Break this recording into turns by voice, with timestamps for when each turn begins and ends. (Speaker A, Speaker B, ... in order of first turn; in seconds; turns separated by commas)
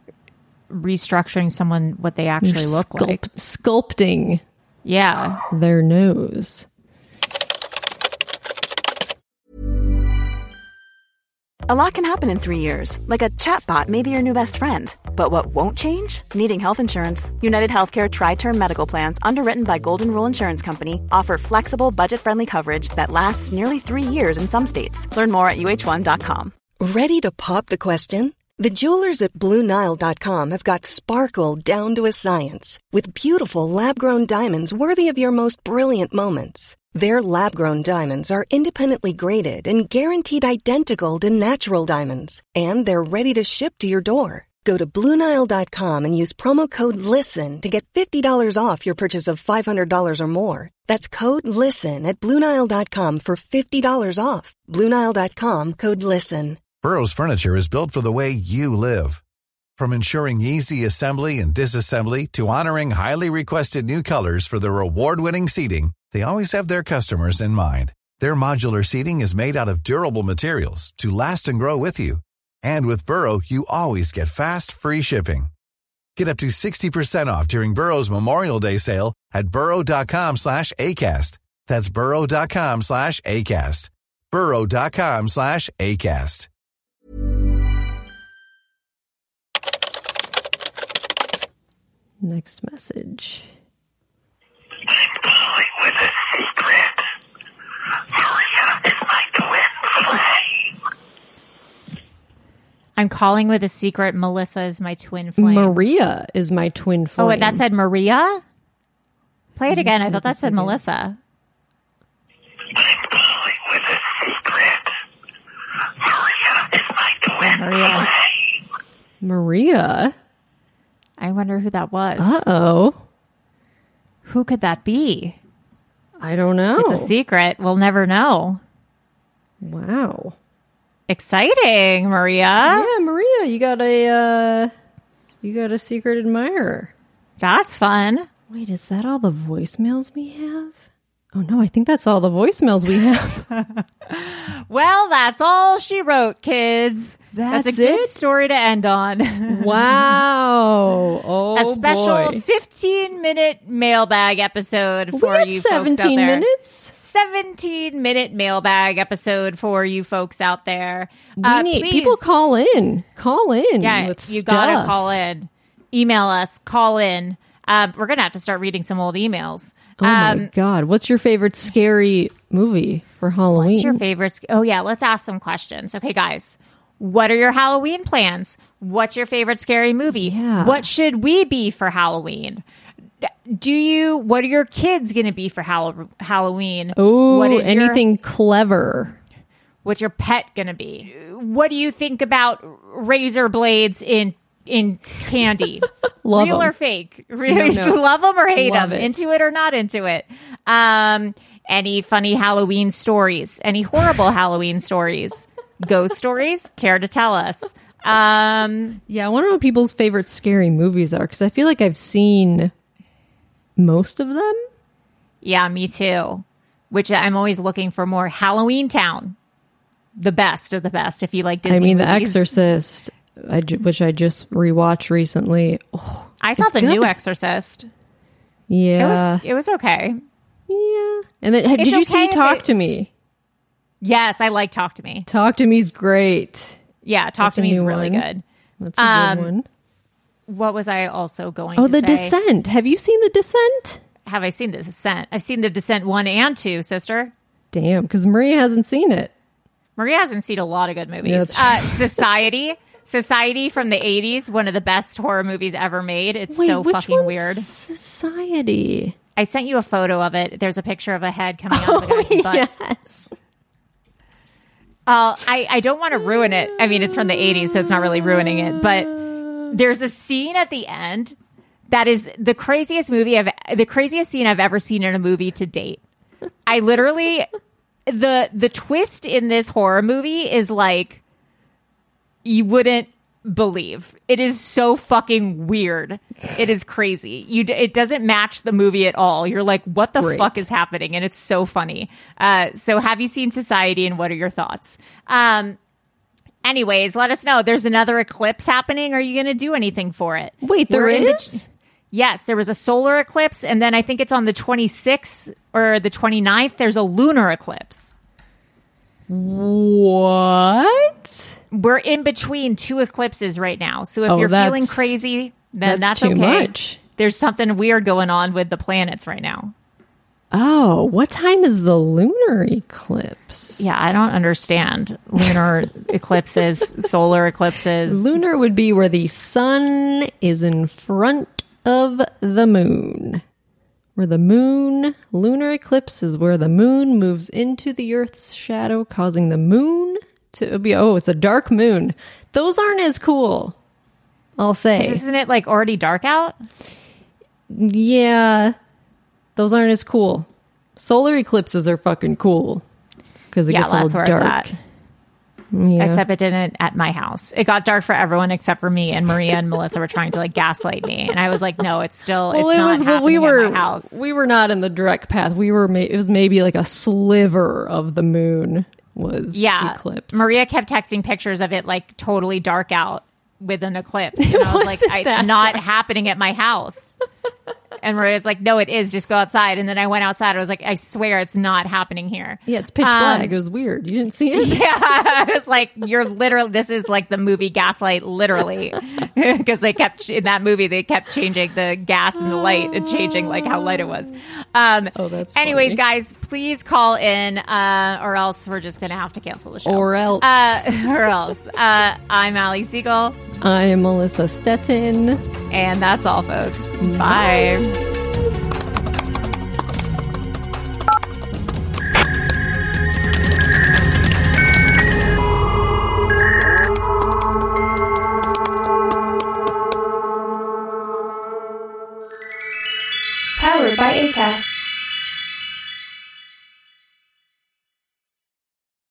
Speaker A: 0.7-3.2, Speaker B: 2.4-4.4, Speaker A: 4.8-5.4, Speaker B: 5.5-6.7, Speaker C: 11.7-26.5, Speaker D: 26.8-56.6, Speaker E: 56.8-59.2, Speaker E: 59.8-75.5, Speaker E: 76.2-86.5, Speaker B: 92.2-93.5, Speaker F: 94.9-96.9, Speaker F: 98.1-100.2, Speaker A: 103.0-105.8, Speaker B: 105.4-107.6, Speaker A: 107.2-108.4, Speaker A: 109.5-111.2, Speaker B: 109.7-110.8, Speaker F: 112.8-114.8, Speaker F: 116.0-117.4, Speaker A: 117.4-118.1, Speaker B: 119.2-120.1, Speaker A: 121.2-122.4, Speaker B: 122.2-123.0, Speaker A: 124.2-125.4, Speaker B: 126.2-127.1, Speaker A: 126.8-128.6, Speaker B: 129.6-130.3, Speaker A: 131.1-132.9, Speaker B: 132.6-134.7, Speaker B: 135.4-136.9, Speaker A: 137.4-138.3, Speaker B: 138.5-140.8, Speaker B: 141.3-143.5, Speaker A: 143.5-150.2, Speaker B: 147.3-148.2, Speaker B: 149.5-152.4, Speaker A: 151.5-162.2, Speaker B: 155.1-156.9, Speaker B: 161.4-165.1, Speaker A: 163.8-170.5, Speaker B: 170.0-174.0, Speaker A: 173.5-182.6, Speaker B: 180.1-180.9, Speaker A: 183.2-188.0, Speaker B: 186.9-189.2, Speaker A: 189.8-209.0, Speaker B: 196.2-196.7, Speaker B: 197.5-199.2, Speaker B: 209.1-212.7, Speaker B: 213.8-214.6, Speaker A: 215.4-219.3, Speaker A: 220.2-222.5, Speaker B: 221.7-227.1, Speaker A: 226.4-227.9, Speaker B: 228.7-229.4, Speaker A: 229.0-230.2, Speaker B: 230.7-233.1, Speaker A: 231.8-232.7, Speaker A: 234.0-235.3, Speaker B: 235.3-236.8, Speaker A: 237.0-238.4, Speaker B: 237.4-238.2, Speaker B: 238.8-239.7, Speaker A: 239.0-239.5, Speaker A: 240.5-242.3, Speaker B: 241.8-244.0, Speaker A: 244.2-247.3, Speaker B: 247.7-249.3, Speaker A: 250.0-257.7, Speaker B: 251.2-252.2, Speaker B: 256.5-259.1, Speaker A: 259.4-262.6, Speaker B: 261.7-263.3, Speaker A: 265.1-269.2, Speaker B: 266.9-269.6, Speaker A: 269.7-271.4, Speaker A: 271.9-276.0, Speaker A: 276.6-277.5, Speaker A: 278.1-281.2, Speaker A: 282.4-295.8, Speaker B: 290.1-290.6, Speaker A: 296.6-308.1, Speaker B: 300.6-301.6, Speaker B: 309.3-311.5, Speaker A: 311.7-319.7, Speaker B: 314.3-315.2, Speaker B: 315.8-317.0, Speaker B: 320.5-323.9, Speaker A: 323.8-328.3, Speaker B: 328.1-333.4, Speaker B: 334.1-343.8, Speaker B: 344.6-345.2, Speaker A: 345.0-346.6, Speaker B: 347.7-348.8, Speaker B: 349.6-352.8, Speaker B: 353.5-354.7, Speaker A: 353.7-354.7, Speaker B: 355.7-356.2, Speaker A: 356.0-364.1, Speaker B: 362.5-370.5, Speaker A: 369.5-377.2, Speaker B: 374.4-375.8, Speaker A: 378.0-383.6, Speaker B: 382.6-384.9, Speaker A: 384.5-403.4, Speaker B: 392.6-394.0, Speaker B: 395.1-396.0, Speaker B: 399.8-400.9, Speaker B: 403.6-405.4, Speaker A: 405.7-408.0, Speaker B: 407.0-407.6, Speaker A: 423.6-424.7